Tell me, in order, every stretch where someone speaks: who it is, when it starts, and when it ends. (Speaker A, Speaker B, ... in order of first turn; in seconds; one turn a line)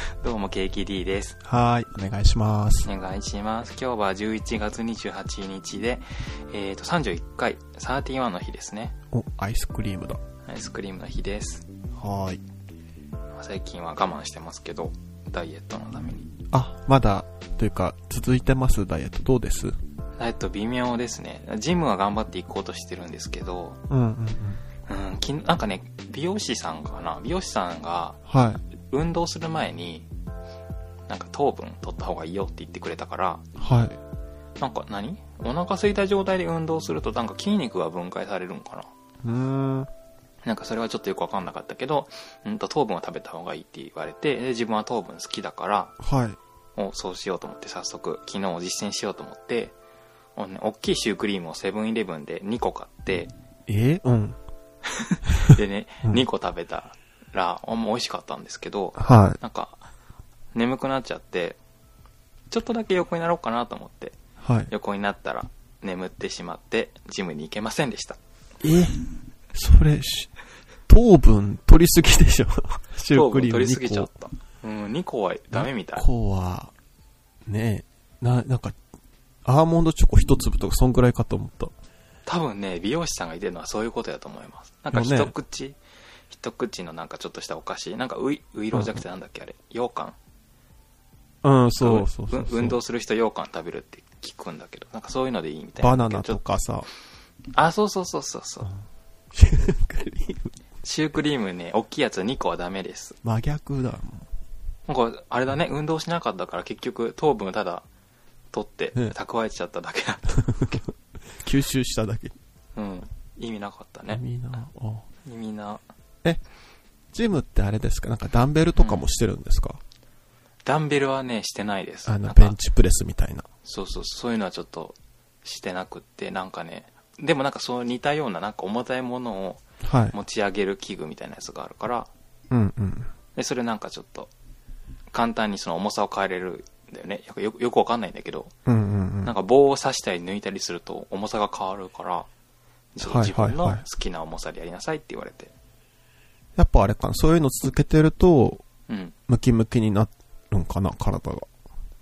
Speaker A: 0.2-1.4
Speaker B: 1.4-2.9
Speaker A: 2.9-8.9
Speaker B: 9.1-10.2
Speaker A: 10.4-11.7
Speaker B: 11.9-12.4
Speaker A: 13.3-16.3
Speaker B: 16.5-19.7
Speaker A: 20.2-23.8
Speaker B: 23.9-24.6
Speaker A: 24.9-28.2
Speaker B: 28.3-28.6
Speaker A: 28.9-30.1
Speaker A: 31.1-33.4
Speaker B: 33.5-34.0
Speaker A: 34.6-38.9
Speaker B: 39.2-39.9
Speaker A: 40.4-45.9
Speaker B: 46.0-46.4
Speaker A: 46.8-49.7
Speaker A: 50.4-53.3
Speaker B: 53.7-54.4
Speaker A: 54.9-59.8
Speaker B: 59.0-59.4
Speaker A: 60.5-61.6
Speaker A: 62.5-64.2
Speaker B: 64.4-64.7
Speaker A: 64.7-68.2
Speaker B: 68.6-69.0
Speaker B: 69.5-70.3
Speaker B: 70.9-74.1
Speaker A: 73.1-76.1
Speaker B: 75.5-76.7
Speaker B: 77.5-78.8
Speaker B: 79.4-81.7
Speaker A: 82.2-85.8
Speaker B: 84.9-85.3
Speaker A: 86.3-90.2
Speaker B: 88.7-89.0
Speaker B: 91.4-92.8
Speaker A: 91.8-96.4
Speaker B: 95.8-96.9
Speaker A: 97.5-98.7
Speaker B: 99.3-100.5
Speaker A: 100.8-103.2
Speaker B: 103.2-104.3
Speaker A: 104.9-107.8
Speaker A: 108.5-110.8
Speaker B: 111.3-112.3
Speaker A: 112.8-114.2
Speaker B: 114.1-115.0
Speaker A: 115.2-115.8
Speaker B: 117.1-119.8
Speaker A: 118.8-119.0
Speaker A: 120.7-122.6
Speaker B: 122.0-123.5
Speaker A: 123.6-129.6
Speaker B: 129.8-130.1
Speaker A: 130.1-132.1
Speaker B: 132.5-133.1
Speaker A: 133.3-134.3
Speaker A: 135.1-138.5
Speaker B: 138.7-139.3
Speaker A: 139.2-142.3
Speaker A: 142.9-145.5
Speaker B: 143.0-143.8
Speaker B: 146.6-148.6
Speaker A: 148.9-149.1
Speaker B: 149.3-151.5